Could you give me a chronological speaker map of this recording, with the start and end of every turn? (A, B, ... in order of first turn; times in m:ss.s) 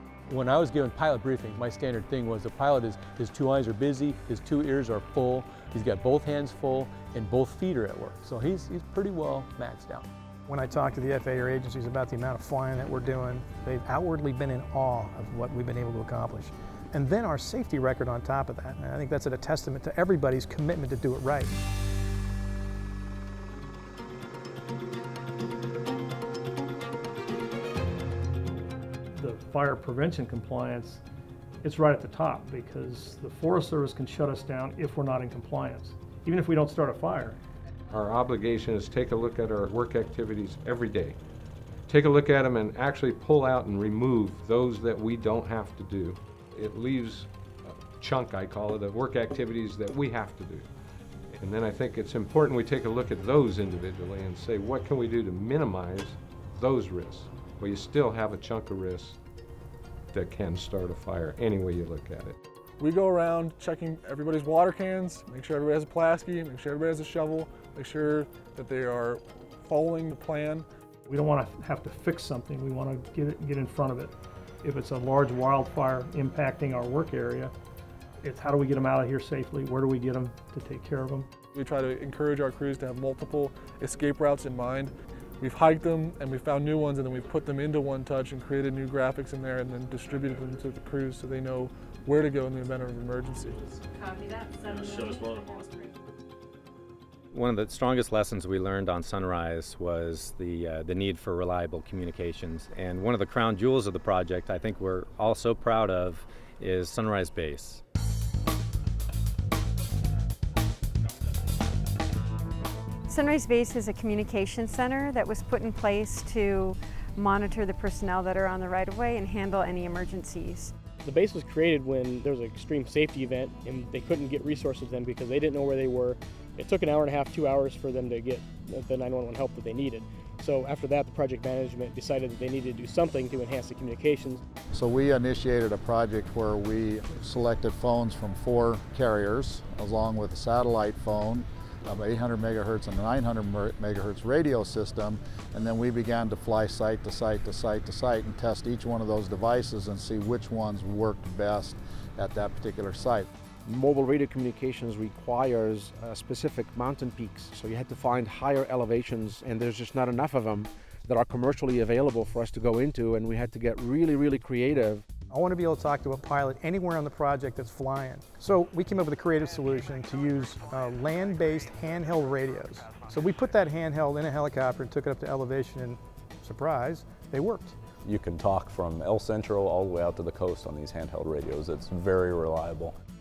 0:00.3-0:10.1 A
0:10.5-0:21.5 B
0:29.1-0:31.0 C
0:31.6-0:37.4 C
0:37.9-0:41.2 D
0:41.9-0:50.7 D
0:51.4-0:59.2 D
1:00.1-1:02.4 D
1:02.8-1:10.7 E
1:11.1-1:17.5 C
1:18.2-1:21.3 C
1:21.5-1:33.8 E
1:34.1-1:35.8 F
1:37.3-1:47.8 G
1:53.1-2:00.7 F
2:01.0-2:14.4 H
2:14.7-2:33.3 I
2:33.7-2:45.0 J
2:45.3-2:57.8 B
2:58.0-3:03.0 K